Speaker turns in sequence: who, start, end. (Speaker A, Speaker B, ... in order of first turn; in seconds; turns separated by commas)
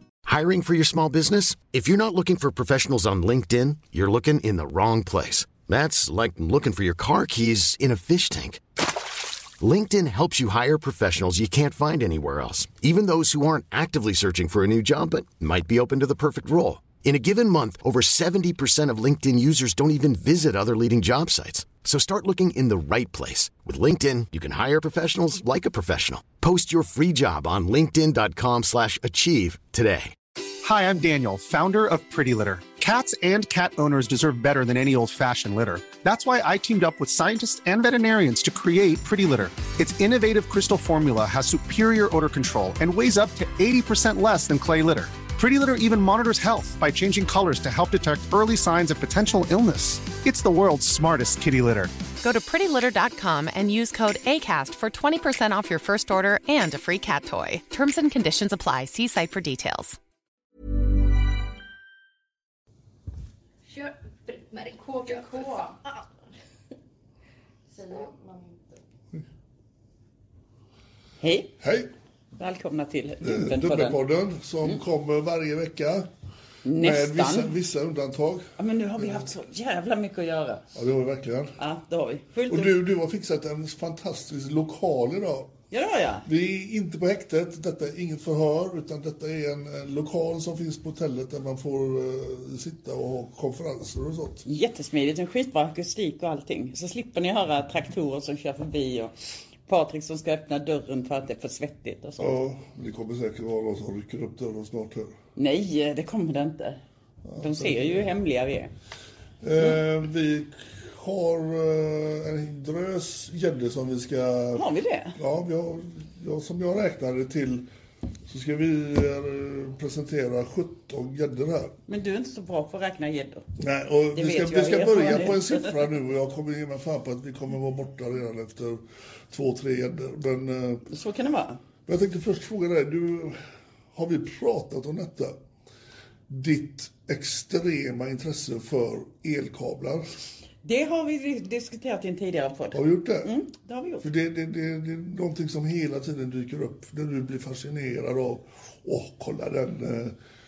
Speaker A: 0.2-8.6, Speaker A: 9.6-30.1, Speaker B: 30.6-51.9, Speaker C: 52.2-60.0, Speaker D: 63.6-66.1, Speaker D: 67.7-68.8, Speaker E: 71.2-71.5, Speaker F: 71.6-71.9, Speaker E: 72.4-74.0, Speaker F: 73.2-76.1, Speaker E: 76.6-77.5, Speaker F: 76.8-79.2, Speaker E: 78.6-80.6, Speaker F: 80.7-81.6, Speaker E: 81.6-82.8, Speaker F: 82.5-85.5, Speaker E: 85.7-86.3, Speaker F: 86.2-94.4, Speaker E: 94.4-99.1, Speaker E: 99.7-102.4, Speaker F: 102.2-105.1, Speaker E: 105.3-106.8, Speaker F: 107.2-108.2, Speaker E: 107.4-108.7, Speaker F: 109.4-114.6, Speaker E: 114.5-115.2, Speaker F: 115.2-117.7, Speaker F: 118.2-121.8, Speaker E: 121.9-123.4, Speaker F: 123.6-130.8, Speaker E: 124.1-125.8, Speaker E: 130.9-131.6, Speaker F: 131.9-133.4, Speaker F: 133.9-135.4, Speaker F: 136.3-140.1, Speaker E: 140.6-144.1, Speaker F: 142.7-143.3, Speaker F: 144.0-150.2